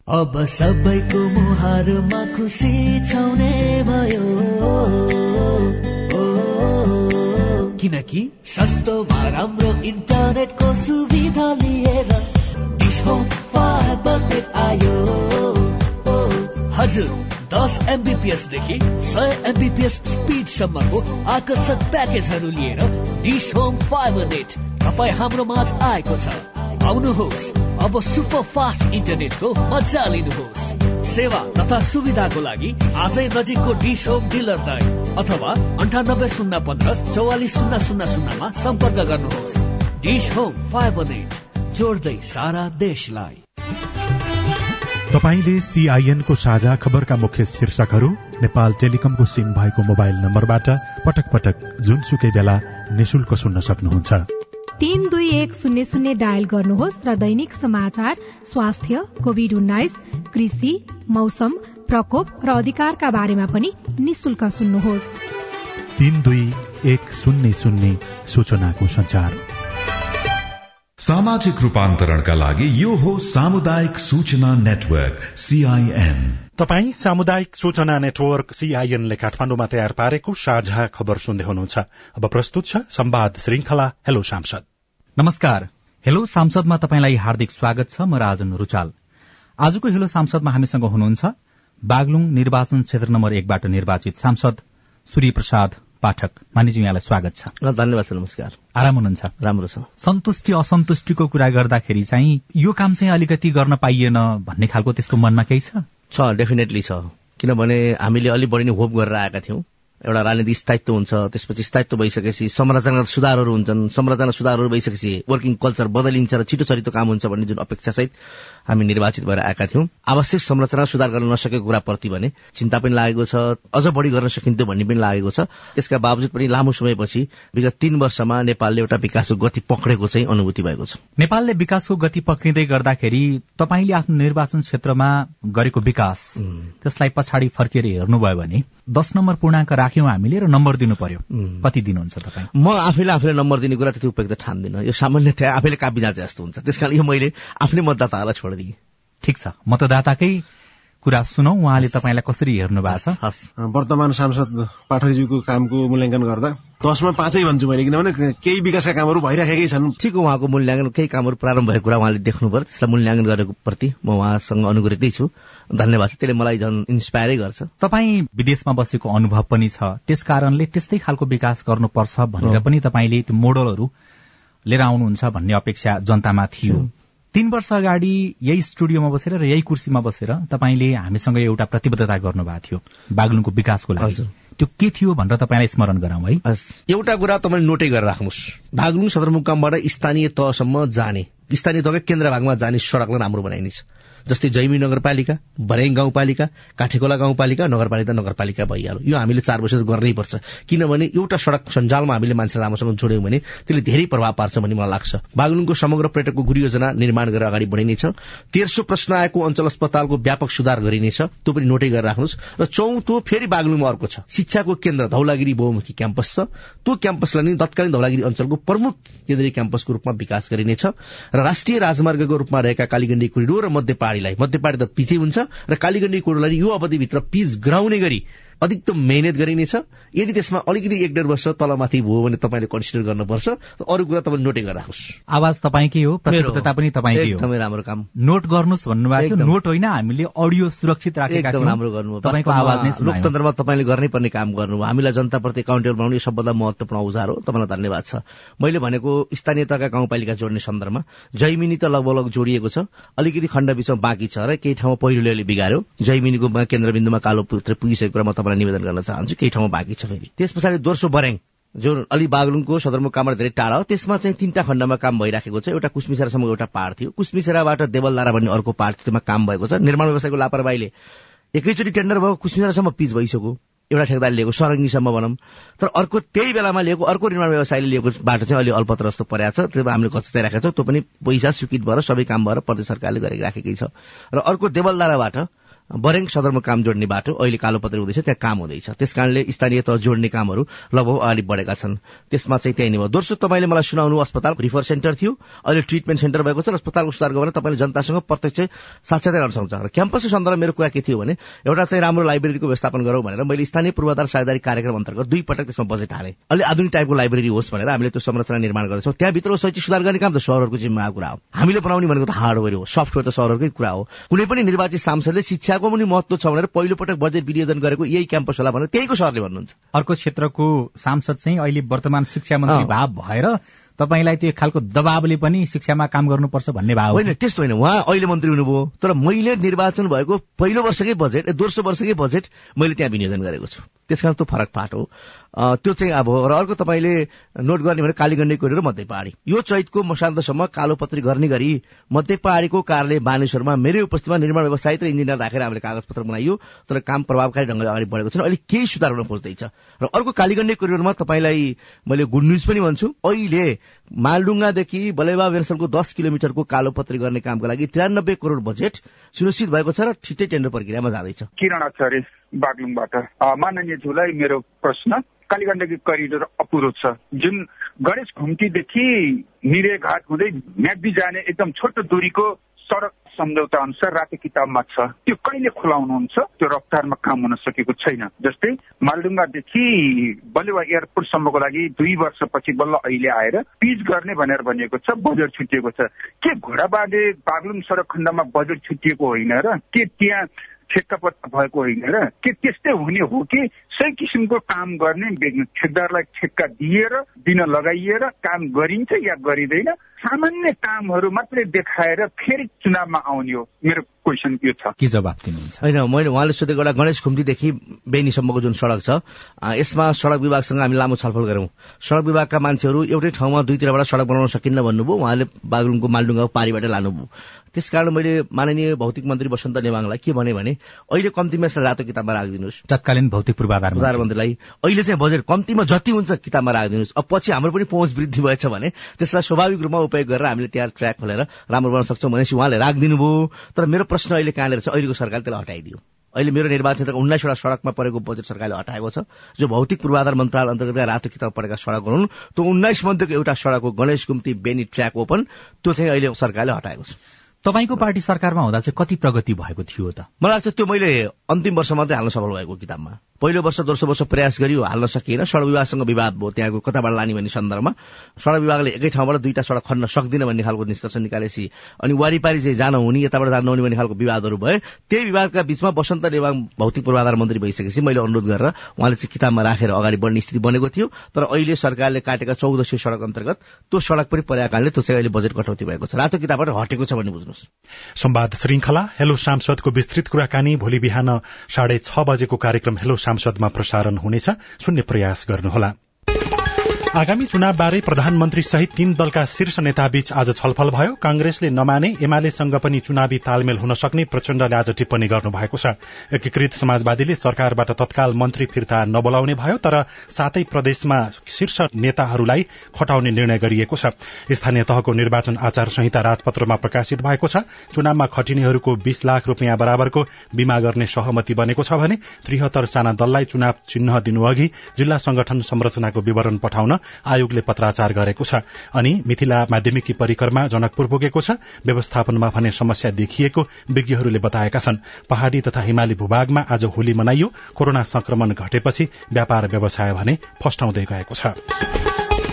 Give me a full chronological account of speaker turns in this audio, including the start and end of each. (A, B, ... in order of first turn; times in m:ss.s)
0:00.1-0:12.3 A
0:12.8-0:43.4 A
0:45.1-0:54.2 B
0:56.3-0:58.1 C
0:59.4-1:00.7 C
1:01.2-1:05.1 C
1:06.0-1:09.4 B
1:11.0-1:16.4 D
1:16.6-1:24.6 B
1:25.2-1:28.9 E
1:29.6-1:31.3 E
1:31.9-1:37.5 E
1:37.6-1:38.6 F
1:38.8-1:39.3 E
1:39.4-1:39.9 F
1:40.0-1:45.8 E
1:46.1-1:58.1 F
1:58.7-2:11.0 F
2:11.2-2:22.5 E
2:22.5-2:28.8 F
2:29.2-2:30.4 E
2:31.0-2:33.2 E
2:32.9-2:33.4 F
2:33.6-2:40.0 G
2:40.0-2:47.7 F
2:47.8-2:53.9 E
2:54.7-3:06.4 E
3:04.0-3:04.3 F
3:06.4-3:55.2 F
3:55.3-3:57.5 E
3:56.3-3:58.1 F
3:58.2-4:03.3 E
3:59.2-3:59.5 F
4:01.3-4:30.9 F
4:31.6-4:45.5 F
4:46.0-5:19.8 F
5:19.9-5:27.3 E
5:22.7-5:22.9 F
5:27.1-5:35.1 F
5:35.6-6:01.5 F
6:01.6-6:44.9 H
6:45.0-6:45.8 E
6:45.8-6:49.2 F
6:49.7-7:02.8 F
7:02.9-7:04.3 E
7:04.0-7:27.2 F
7:27.6-7:30.3 E
7:30.4-7:57.6 F
7:58.2-8:05.9 B
8:07.2-8:51.6 B